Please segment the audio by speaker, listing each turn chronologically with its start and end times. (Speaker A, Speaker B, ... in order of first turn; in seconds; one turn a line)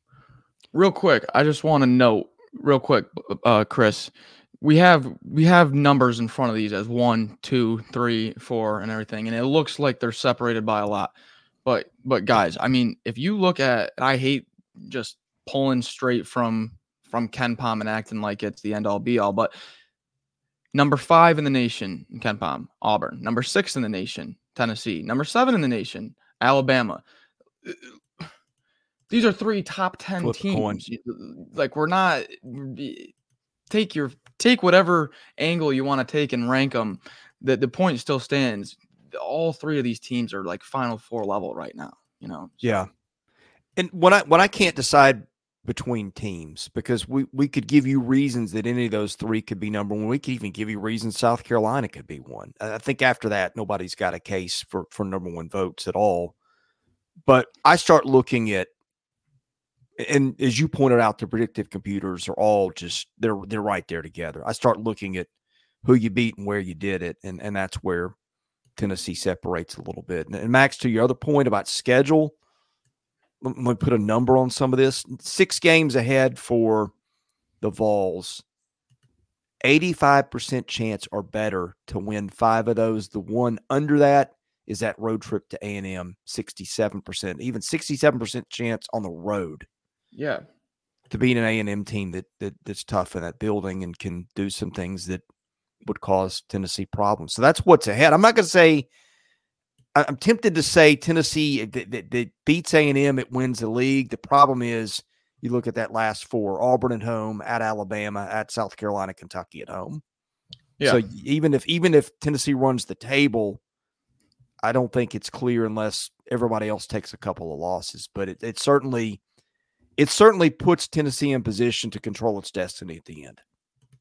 Speaker A: 0.7-11.1
Speaker A: 11.6-19.5
Speaker A: 20.7-27.0
Speaker A: 27.6-27.9
Speaker A: 29.1-33.1
Speaker B: 30.2-30.8
Speaker A: 33.7-42.6
Speaker B: 42.6-42.9
Speaker B: 43.8-56.3
Speaker B: 57.2-58.7
Speaker B: 60.0-65.3
Speaker B: 65.8-68.1
Speaker B: 68.8-72.3
Speaker B: 73.4-76.9
Speaker B: 77.6-78.4
Speaker B: 79.6-89.7
Speaker A: 90.1-90.5
Speaker B: 91.1-95.2
Speaker B: 95.8-98.9
Speaker B: 99.9-110.0
Speaker B: 110.8-113.6
Speaker B: 114.6-119.2
Speaker B: 120.0-123.4